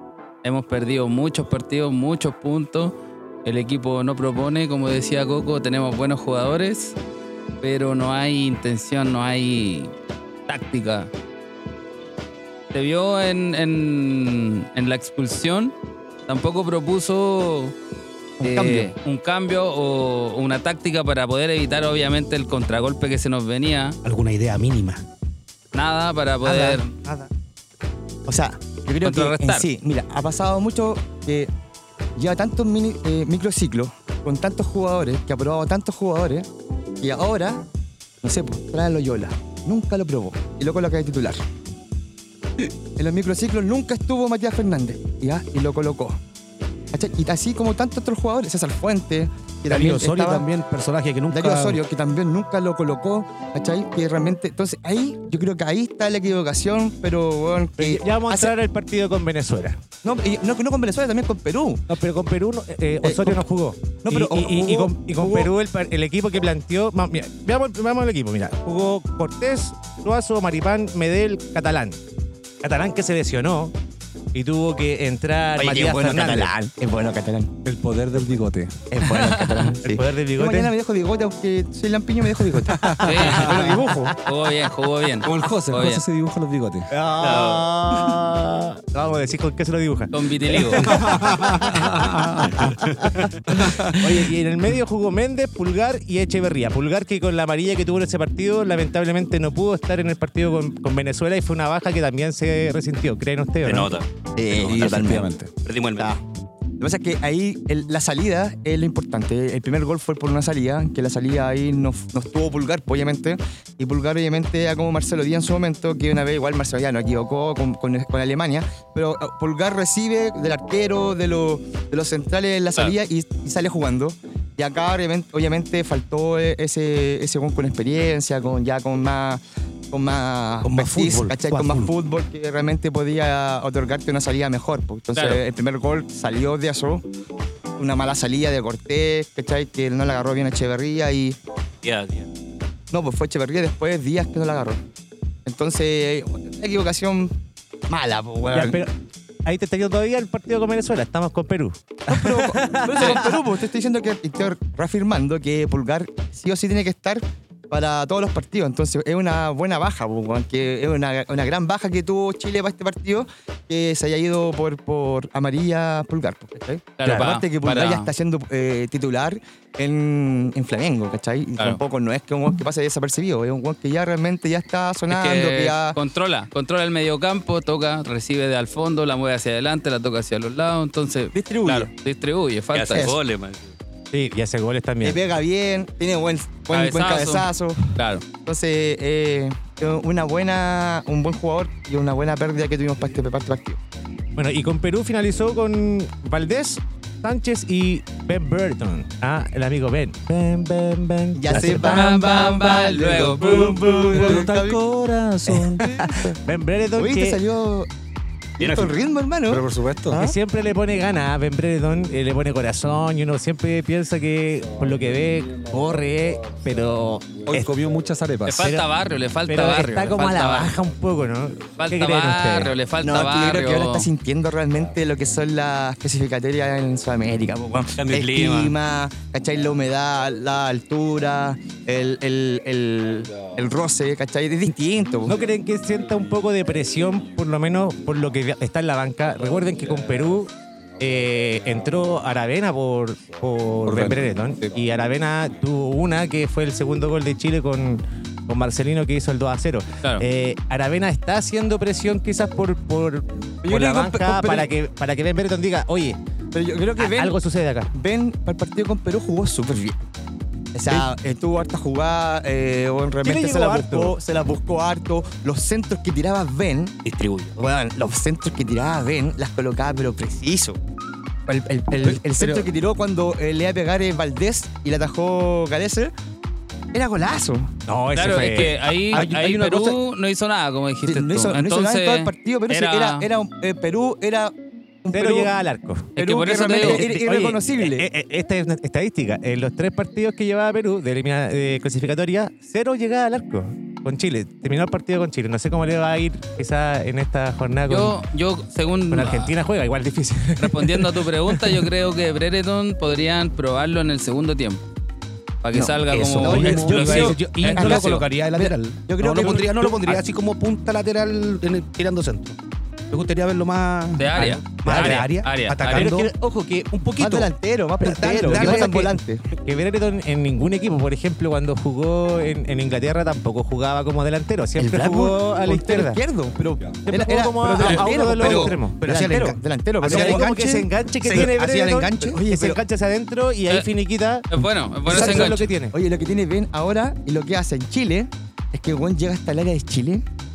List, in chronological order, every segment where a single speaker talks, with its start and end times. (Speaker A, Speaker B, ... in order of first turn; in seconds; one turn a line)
Speaker A: 0.4-7.0
Speaker A: 7.6-9.9
Speaker A: 10.5-11.1
Speaker A: 12.7-15.7
Speaker A: 16.3-17.7
Speaker B: 18.4-18.9
Speaker A: 18.4-24.0
Speaker C: 24.0-25.0
Speaker A: 25.7-26.9
Speaker B: 26.4-27.3
Speaker B: 28.3-31.5
Speaker A: 29.0-29.7
Speaker B: 32.2-36.5
Speaker B: 37.0-37.7
Speaker B: 38.2-41.4
Speaker B: 43.0-46.2
Speaker B: 46.9-50.5
Speaker C: 49.7-51.8
Speaker B: 51.3-58.5
Speaker D: 57.8-59.8
Speaker B: 60.0-61.8
Speaker D: 61.9-72.0
Speaker B: 63.0-63.5
Speaker B: 64.0-65.5
Speaker D: 72.6-73.7
Speaker D: 74.3-76.7
Speaker B: 75.6-77.5
Speaker E: 77.6-78.8
Speaker B: 78.9-84.1
Speaker A: 79.1-79.7
Speaker D: 79.8-80.7
Speaker E: 82.7-83.7
Speaker D: 83.0-84.1
Speaker A: 83.0-86.0
Speaker E: 85.2-86.9
Speaker D: 86.9-91.8
Speaker F: 87.2-88.2
Speaker A: 90.1-91.0
Speaker E: 90.7-92.8
Speaker D: 92.5-103.9
Speaker F: 103.7-106.2
Speaker B: 104.4-105.3
Speaker E: 104.6-105.5
Speaker B: 106.8-137.1
Speaker C: 130.6-131.9
Speaker A: 135.2-135.4
Speaker B: 137.8-141.4
Speaker F: 141.8-142.3
Speaker B: 142.9-144.8
Speaker B: 145.5-147.3
Speaker B: 147.9-148.8
Speaker D: 148.5-148.9
Speaker D: 149.5-153.4
Speaker B: 152.1-176.0
Speaker A: 152.9-153.2
Speaker A: 167.0-168.1
Speaker A: 175.1-183.1
Speaker B: 181.3-181.9
Speaker F: 182.7-183.7
Speaker D: 184.1-185.2
Speaker B: 185.0-193.8
Speaker A: 186.7-188.2
Speaker D: 194.4-202.0
Speaker B: 201.4-204.8
Speaker A: 201.6-204.4
Speaker E: 204.1-205.8
Speaker B: 205.7-206.4
Speaker D: 206.0-207.4
Speaker B: 207.0-207.9
Speaker B: 208.6-210.4
Speaker F: 208.6-209.0
Speaker E: 209.5-210.2
Speaker D: 210.1-217.7
Speaker E: 217.5-218.8
Speaker A: 218.5-220.7
Speaker D: 218.6-218.9
Speaker D: 219.5-222.8
Speaker A: 221.8-224.1
Speaker B: 223.0-235.4
Speaker F: 228.0-228.8
Speaker D: 235.2-256.2
Speaker E: 243.9-244.8
Speaker B: 253.6-254.7
Speaker B: 256.5-257.4
Speaker D: 257.0-257.9
Speaker B: 257.9-260.0
Speaker B: 260.7-267.0
Speaker D: 263.2-264.2
Speaker F: 267.1-267.7
Speaker B: 267.6-270.8
Speaker B: 271.5-276.1
Speaker C: 272.0-272.7
Speaker B: 276.9-277.7
Speaker D: 277.9-279.2
Speaker A: 278.2-283.3
Speaker C: 279.1-280.0
Speaker B: 281.1-285.5
Speaker D: 285.1-286.2
Speaker A: 286.2-287.1
Speaker B: 286.2-288.1
Speaker D: 286.8-298.2
Speaker A: 297.9-299.5
Speaker D: 299.1-301.9
Speaker A: 300.6-304.8
Speaker A: 305.6-308.3
Speaker C: 305.7-312.6
Speaker D: 306.4-307.0
Speaker B: 306.5-310.2
Speaker C: 313.1-319.2
Speaker A: 314.2-316.1
Speaker D: 314.9-315.3
Speaker D: 315.9-316.4
Speaker B: 317.2-319.5
Speaker D: 318.0-319.1
Speaker D: 319.6-326.2
Speaker B: 324.8-332.8
Speaker D: 327.1-329.0
Speaker C: 327.8-332.4
Speaker D: 330.0-334.5
Speaker A: 334.5-335.7
Speaker D: 335.1-336.0
Speaker B: 335.1-340.2